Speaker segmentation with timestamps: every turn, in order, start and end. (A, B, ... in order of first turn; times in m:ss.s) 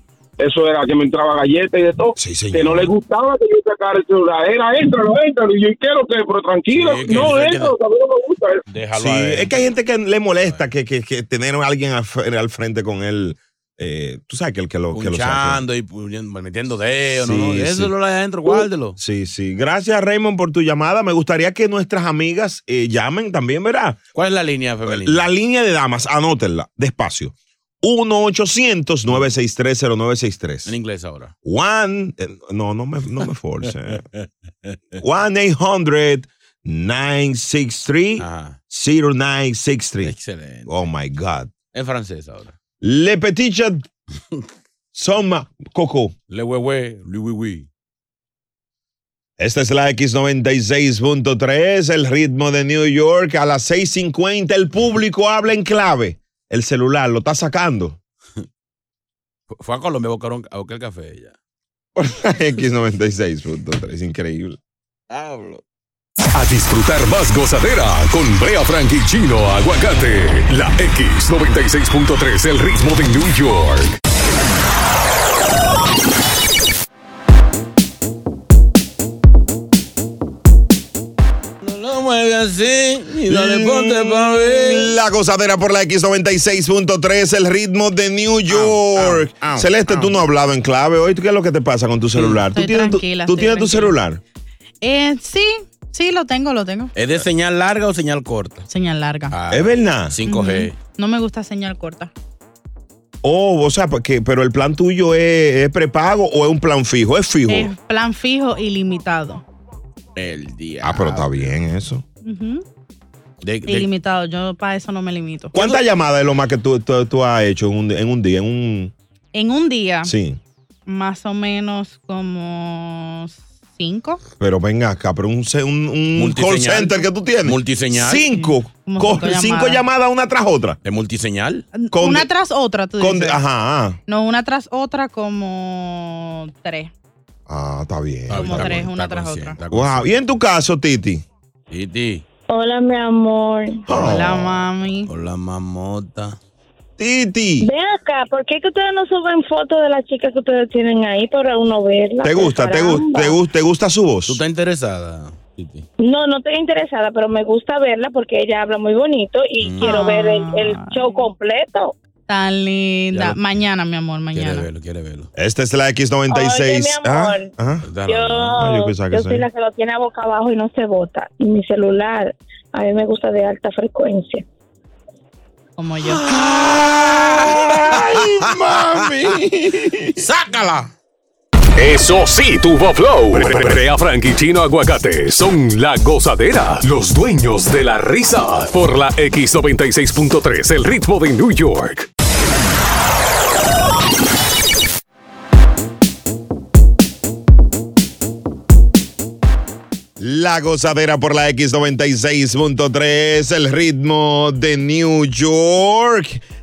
0:00.4-0:08.6 A
0:02.2-0:02.9 B
0:06.7-0:07.7 C
0:08.7-0:09.6 C
0:09.0-0:15.6 B
0:14.9-0:19.0 C
0:17.2-0:17.9 B
0:18.5-0:24.0 B
0:24.2-0:25.3 C
0:24.9-0:30.7 B
0:30.7-0:31.3 C
0:31.4-0:34.0 B
0:34.2-0:35.0 C
0:35.0-0:41.5 B
0:38.2-0:38.6 C
0:40.0-0:40.8 C
0:41.7-0:42.6 C
0:42.8-0:43.9 B
0:44.9-0:46.1 B
0:46.3-0:47.7 C
0:49.4-0:58.0 B
0:59.5-1:01.4 C
1:02.0-1:04.6 B
1:05.1-1:05.6 C
1:06.3-1:14.0 D
1:21.6-1:25.0 C
1:23.3-1:34.2 B
1:28.5-1:30.2 C
1:32.2-1:32.4 C
1:32.5-1:34.0 E
1:34.8-1:36.9 E
1:37.0-1:38.7 C
1:38.7-1:39.3 E
1:39.3-1:40.8 C
1:39.5-1:40.2 B
1:40.3-1:42.1 E
1:43.2-1:47.7 B
1:47.5-1:49.4 E
1:50.2-1:51.6 C
1:50.8-1:52.0 B
1:52.2-1:52.6 E
1:53.4-1:53.9 C
1:53.7-1:55.5 E
1:55.5-1:58.9 B
1:59.3-2:00.1 E
2:00.0-2:00.4 B
2:00.9-2:04.2 E
2:04.4-2:10.8 B
2:06.2-2:08.2 C
2:08.3-2:09.8 E
2:10.8-2:11.7 C
2:11.8-2:13.4 E
2:11.9-2:12.3 B
2:13.0-2:14.0 B
2:14.1-2:16.9 E
2:17.5-2:18.8 B
2:18.3-2:20.2 C
2:18.4-2:19.6 E
2:19.7-2:21.2 B
2:21.7-2:22.2 C
2:22.5-2:23.8 F
2:23.9-2:24.6 B
2:24.0-2:25.1 E
2:25.1-2:26.4 C
2:27.0-2:27.7 B
2:27.6-2:33.4 F
2:32.2-2:34.4 B
2:34.3-2:35.9 C
2:36.0-2:41.9 F
2:39.6-2:39.9 C
2:39.8-2:41.2 E
2:42.3-2:44.7 E
2:43.1-2:43.5 C
2:44.3-2:45.3 C
2:45.4-2:47.9 B
2:46.3-2:47.5 F
2:47.8-2:48.6 C
2:48.1-2:54.4 F
2:48.6-2:49.5 B
2:55.8-2:56.2 E
2:56.0-2:59.1 C
2:56.7-3:00.2 B
3:00.2-3:00.9 C
3:01.8-3:12.1 D
3:03.4-3:03.8 C
3:20.2-3:26.4 B